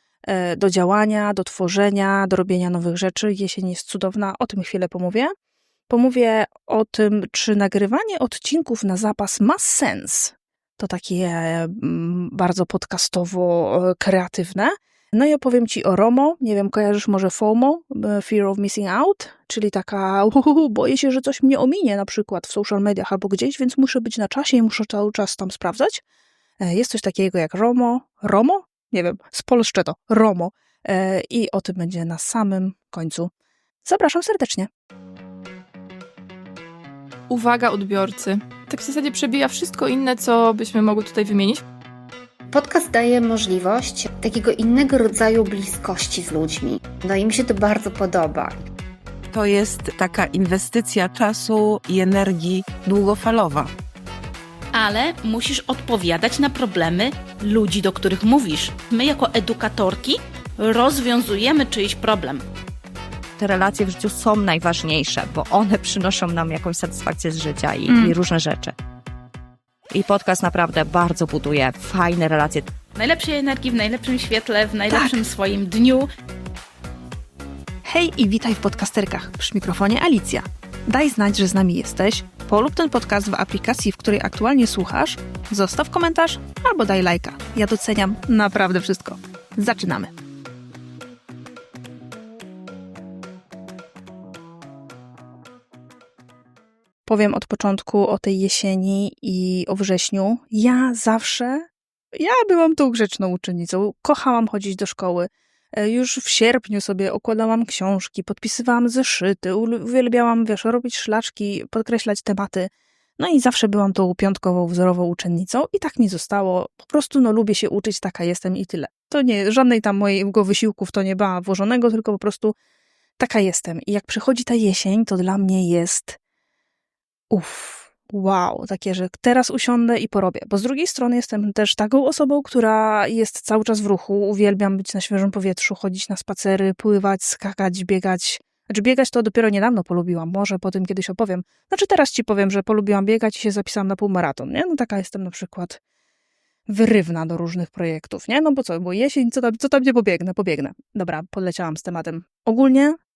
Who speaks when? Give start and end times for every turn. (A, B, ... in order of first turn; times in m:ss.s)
0:00.3-0:05.3 A
0:05.9-0:26.0 A
0:26.6-0:33.3 A
0:33.8-0:34.7 A
0:37.3-0:41.6 B
0:42.5-0:48.6 C
0:49.3-0:53.7 D
0:54.8-1:02.4 E
1:03.4-1:08.8 F
1:09.9-1:12.7 F
1:13.0-1:16.1 E
1:14.9-1:15.2 A
1:17.9-1:30.1 A
1:37.1-2:02.6 A
2:03.2-2:06.2 A
2:07.3-2:25.8 A
2:26.7-2:33.0 A